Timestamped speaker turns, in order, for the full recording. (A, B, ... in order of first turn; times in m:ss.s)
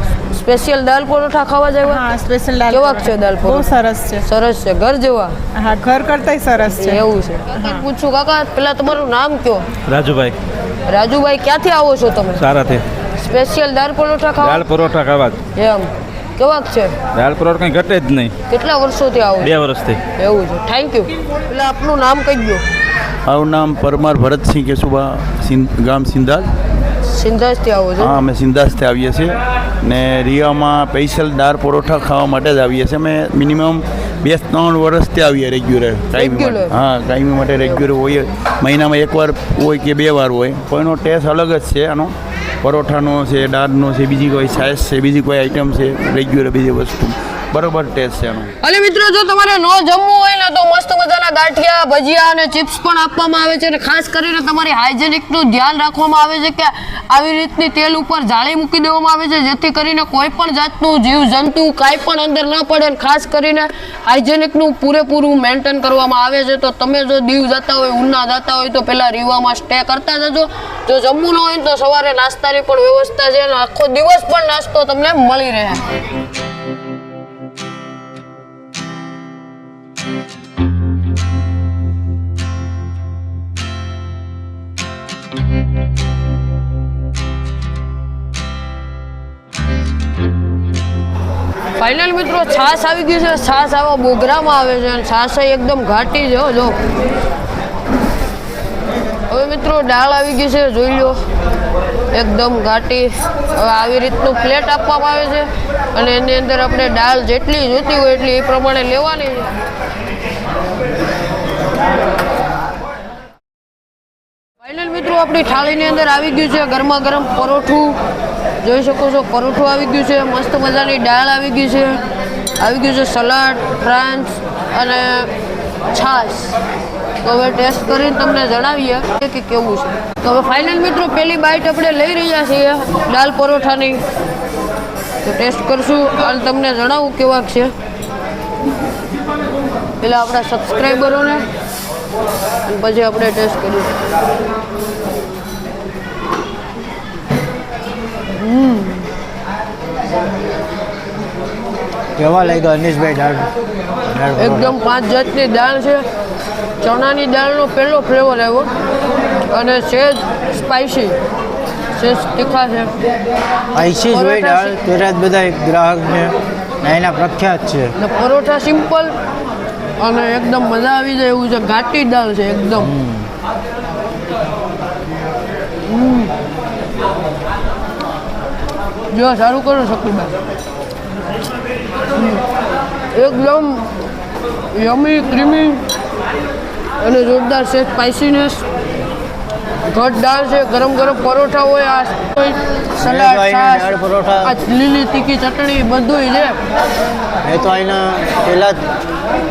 0:00.3-0:02.1 A
0:01.8-0:04.2 B
0:02.7-0:05.4 A
0:05.5-0:07.0 B
0:06.8-0:09.7 A
0:07.6-0:07.8 B
0:09.9-0:10.4 C
0:10.9-0:12.4 A
0:12.4-0:12.8 C
0:13.1-0:14.6 A
0:14.4-0:15.4 C
0:15.6-0:16.9 A
0:17.2-0:18.3 C
0:18.5-0:19.6 A
0:19.4-0:20.0 C
0:20.2-0:22.6 A
0:23.3-0:26.5 D
0:27.0-0:28.2 A
0:28.0-0:48.5 D
0:36.2-0:36.7 A
0:48.6-1:15.9 A
1:31.8-1:36.8 A
1:39.3-1:41.2 A
1:42.1-1:49.5 A
1:54.6-1:58.0 A
1:58.6-2:02.0 A
2:02.6-2:05.3 A
2:05.9-2:06.6 A
2:07.2-2:14.0 A
2:15.2-2:17.7 A
2:20.0-2:21.5 A
2:22.7-2:24.0 A
2:28.4-2:29.1 A
2:32.2-2:33.5 E
2:34.1-2:34.8 E
2:34.4-2:36.0 A
2:36.8-2:38.7 A
2:39.5-2:41.2 A
2:42.0-2:42.9 A
2:43.7-2:47.9 E
2:44.0-2:44.8 A
2:48.0-2:49.1 A
2:50.0-2:53.0 A
2:52.8-2:53.3 E
2:55.9-2:56.3 A
2:59.1-3:00.4 A
3:02.2-3:02.4 A
3:03.1-3:03.9 A
3:04.7-3:05.8 A
3:07.0-3:08.6 A
3:09.9-3:16.6 A
3:13.0-3:14.6 E
3:17.4-3:18.8 E